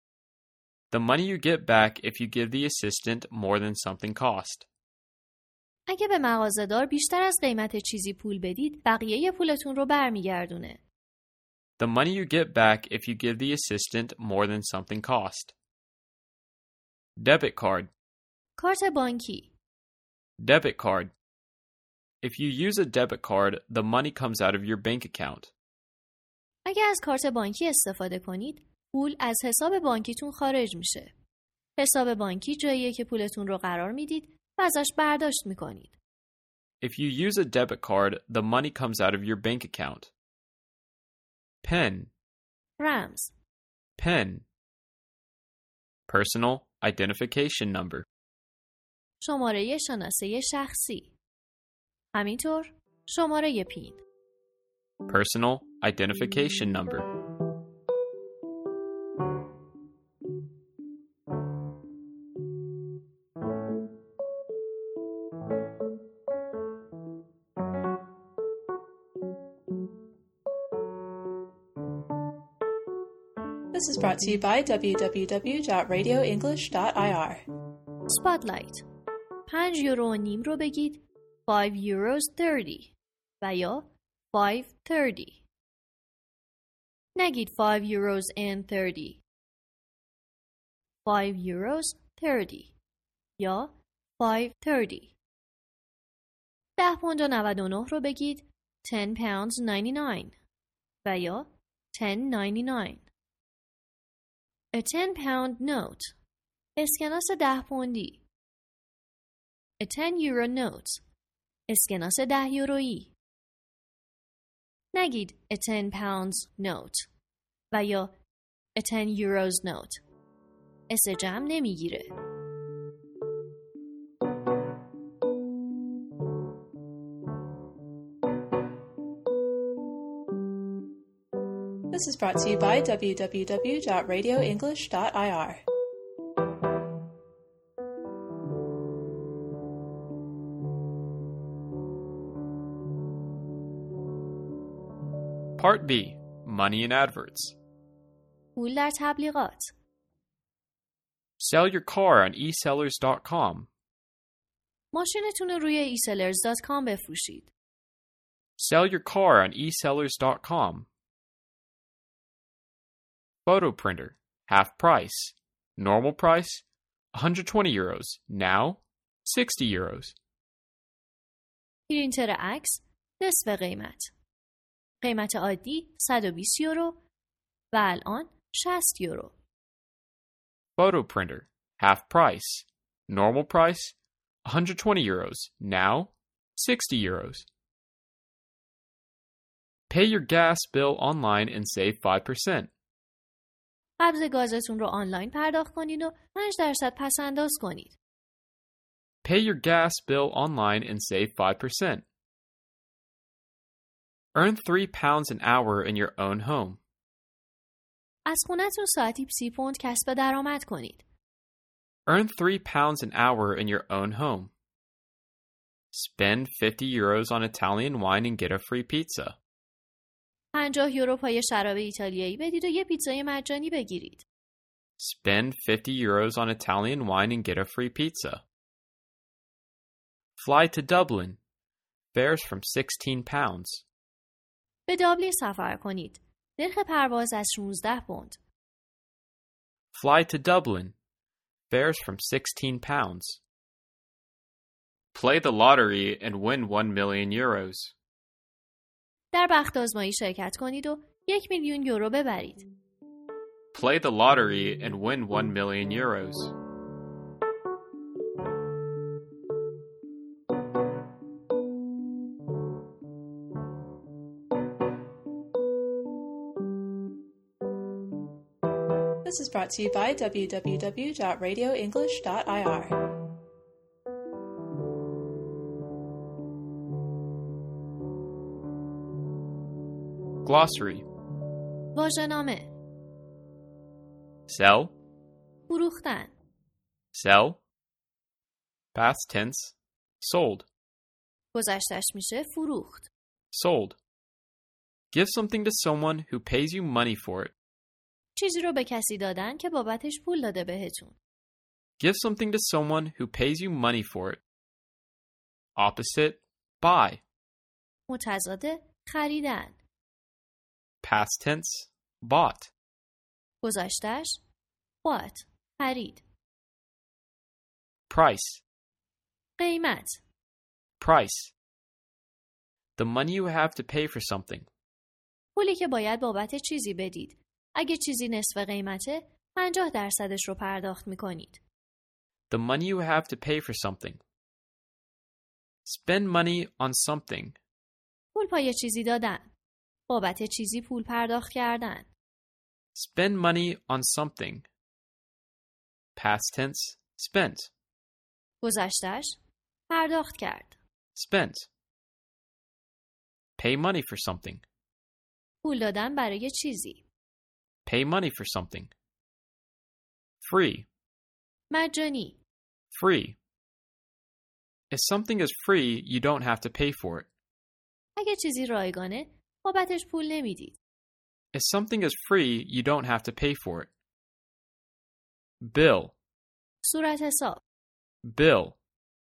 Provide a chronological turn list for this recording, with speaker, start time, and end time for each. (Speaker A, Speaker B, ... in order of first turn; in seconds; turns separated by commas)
Speaker A: 0.9-4.7, Speaker B: 5.9-10.8, Speaker A: 11.8-15.5, Speaker A: 17.2-17.9, Speaker B: 18.6-19.5, Speaker A: 20.4-21.1, Speaker A: 22.2-25.5, Speaker B: 26.6-31.1, Speaker B: 31.8-36.0, Speaker A: 36.8-40.1, Speaker A: 41.6-42.1, Speaker B: 42.8-43.3, Speaker A: 44.0-44.5, Speaker A: 46.1-48.0, Speaker B: 49.2-51.1, Speaker B: 52.1-54.0, Speaker A: 55.0-57.1, Speaker C: 73.7-77.4, Speaker B: 78.1-78.8, Speaker B: 79.5-85.4, Speaker B: 87.1-89.2, Speaker B: 91.0-92.7, Speaker B: 93.4-95.1, Speaker B: 96.8-100.3, Speaker B: 101.0-103.0, Speaker B: 104.7-106.1, Speaker B: 106.8-108.2, Speaker B: 109.8-111.0, Speaker B: 111.7-113.1, Speaker B: 114.9-117.1, Speaker B: 117.7-118.1, Speaker B: 118.7-120.0, Speaker B: 120.9-122.1, Speaker C: 131.9-135.6, Speaker A: 145.6-147.6, Speaker B: 148.6-149.7, Speaker A: 151.4-153.7, Speaker B: 154.9-157.5, Speaker A: 158.6-160.9, Speaker A: 163.4-170.2, Speaker B: 171.9-174.1, Speaker B: 175.0-177.0, Speaker B: 177.7-179.3, Speaker A: 180.8-187.5, Speaker A: 189.9-192.7, Speaker B: 194.0-198.0, Speaker A: 199.2-202.0, Speaker A: 204.3-206.8, Speaker B: 208.2-211.0, Speaker A: 212.1-214.5, Speaker A: 215.9-219.4, Speaker B: 220.5-224.2, Speaker A: 225.0-228.4, Speaker A: 230.4-231.4, Speaker A: 232.1-233.8, Speaker B: 234.9-238.4, Speaker A: 239.9-240.9, Speaker A: 241.7-243.4, Speaker A: 245.1-247.9, Speaker B: 249.3-252.7, Speaker A: 253.7-256.5, Speaker C: 269.2-272.9, Speaker A: 280.4-281.1, Speaker B: 281.9-282.7, Speaker A: 284.5-284.9, Speaker B: 285.7-286.3, Speaker A: 287.1-287.6, Speaker A: 288.9-290.7, Speaker B: 291.5-293.1, Speaker A: 293.5-294.0, Speaker A: 295.1-297.5, Speaker B: 298.3-301.2, Speaker A: 302.0-304.4, Speaker A: 305.8-307.2, Speaker B: 308.1-309.8, Speaker A: 311.0-312.7, Speaker B: 313.6-314.4, Speaker B: 315.0-316.2, Speaker A: 318.1-318.6, Speaker B: 319.6-320.2, Speaker A: 321.0-321.5, Speaker A: 323.0-324.7, Speaker B: 325.5-331.6, Speaker A: 332.5-334.2, Speaker A: 335.8-337.6, Speaker B: 338.3-339.5, Speaker B: 340.1-342.1, Speaker A: 342.9-344.6, Speaker A: 346.1-347.7, Speaker B: 348.6-349.4, Speaker B: 349.9-350.8, Speaker A: 351.1-351.7, Speaker A: 353.6-354.6, Speaker B: 355.6-357.0, Speaker A: 357.8-358.9, Speaker A: 360.4-360.9, Speaker B: 361.7-362.4, Speaker A: 362.9-363.4, Speaker A: 364.9-367.3, Speaker B: 368.1-370.8, Speaker A: 371.5-373.9, Speaker A: 375.6-376.1, Speaker B: 376.8-377.6, Speaker A: 378.2-378.8